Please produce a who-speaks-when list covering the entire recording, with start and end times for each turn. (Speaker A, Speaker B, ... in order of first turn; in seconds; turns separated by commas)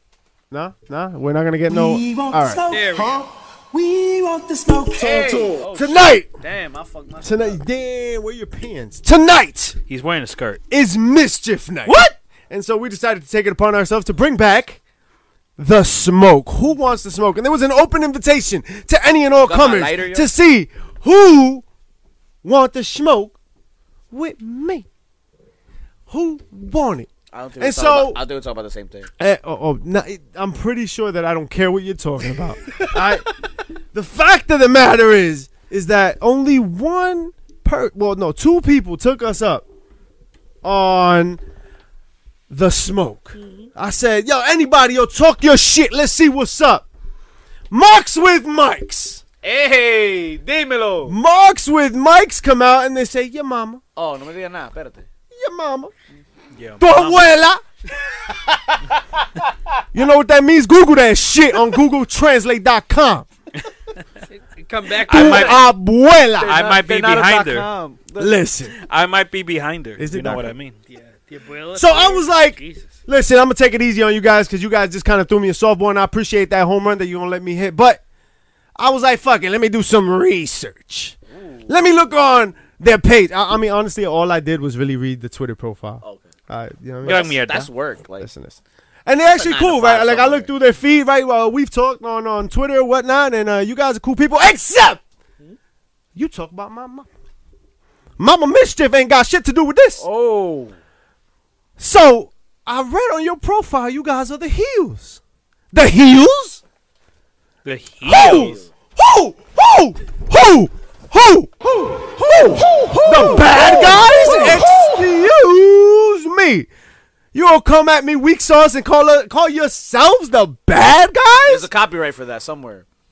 Speaker A: 0.5-2.7, Speaker B: 1.7-5.7, Speaker C: 2.7-3.2, Speaker D: 4.9-7.6, Speaker A: 5.7-6.3, Speaker A: 7.2-9.8, Speaker E: 9.9-10.6, Speaker A: 10.7-14.8, Speaker D: 11.9-12.1, Speaker A: 15.6-21.6, Speaker D: 19.4-20.3, Speaker A: 22.4-23.3, Speaker A: 24.1-24.9, Speaker A: 26.1-28.2, Speaker D: 27.3-29.1, Speaker A: 29.2-33.3, Speaker A: 33.9-39.6, Speaker A: 40.6-41.4, Speaker A: 42.5-46.9, Speaker C: 43.4-43.7, Speaker A: 47.7-49.2, Speaker D: 49.4-51.2, Speaker A: 51.1-53.8, Speaker D: 54.0-55.1, Speaker A: 55.3-55.9, Speaker E: 56.5-57.3, Speaker A: 56.8-57.6, Speaker D: 58.5-58.8, Speaker A: 59.9-63.3, Speaker C: 64.3-65.6, Speaker E: 65.0-65.6, Speaker A: 65.0-66.6, Speaker D: 66.4-68.3, Speaker E: 66.4-67.7, Speaker A: 68.2-68.8, Speaker E: 68.8-70.8, Speaker A: 70.0-70.5, Speaker C: 70.9-72.9, Speaker A: 71.7-78.0, Speaker A: 78.8-87.3, Speaker D: 81.3-81.7, Speaker D: 86.0-86.3, Speaker E: 87.0-87.7, Speaker D: 87.0-88.3, Speaker A: 88.2-95.0, Speaker D: 89.3-90.5, Speaker A: 96.1-97.1, Speaker A: 98.2-100.0, Speaker D: 100.0-100.8, Speaker A: 101.8-105.2, Speaker A: 105.7-106.6, Speaker E: 107.6-108.6, Speaker A: 108.0-116.7, Speaker D: 108.2-108.7, Speaker B: 112.4-114.7, Speaker A: 117.3-121.7, Speaker D: 121.5-122.8